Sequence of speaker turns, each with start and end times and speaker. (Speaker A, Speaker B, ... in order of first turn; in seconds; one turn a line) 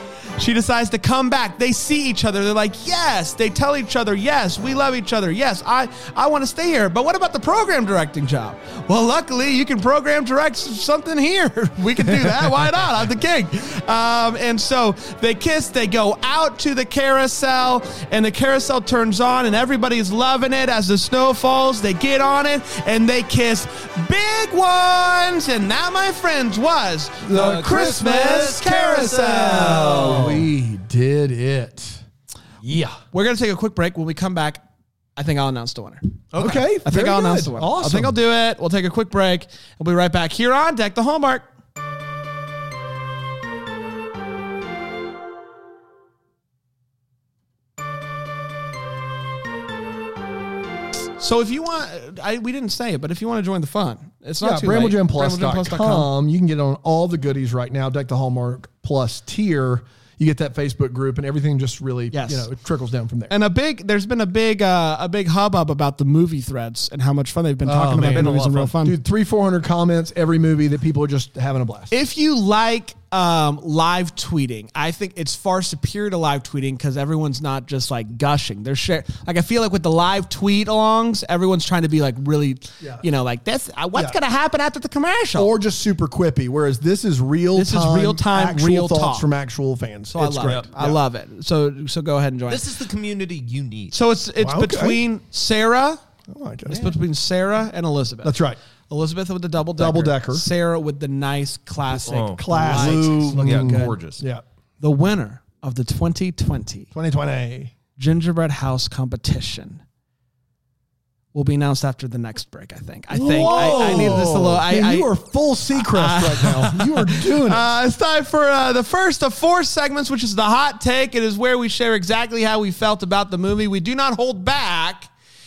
Speaker A: 0.4-30.0
Speaker B: 27.2-32.0
Speaker C: 27.3-30.5
Speaker B: 32.6-33.0
Speaker A: 33.1-34.6
Speaker A: 35.2-36.2
Speaker C: 36.3-36.6
Speaker B: 36.4-38.2
Speaker A: 36.8-41.5
Speaker A: 51.2-56.1
Speaker B: 54.4-63.3
Speaker A: 62.1-62.5
Speaker A: 63.3-69.0
Speaker B: 67.6-71.9
Speaker C: 67.9-68.7
Speaker A: 71.9-85.5
Speaker B: 85.3-90.7
Speaker A: 87.5-89.3
Speaker A: 90.1-92.7
Speaker C: 90.4-91.0
Speaker C: 92.5-94.0
Speaker A: 93.9-96.0
Speaker B: 94.4-95.0
Speaker B: 96.3-97.0
Speaker A: 96.7-98.4
Speaker B: 98.2-98.6
Speaker A: 98.9-103.9
Speaker B: 99.8-100.5
Speaker C: 101.9-104.2
Speaker B: 102.4-104.4
Speaker A: 104.8-106.9
Speaker B: 106.9-107.7
Speaker A: 108.0-109.8
Speaker A: 111.3-115.1
Speaker B: 113.1-117.7
Speaker C: 113.4-114.3
Speaker A: 115.8-125.1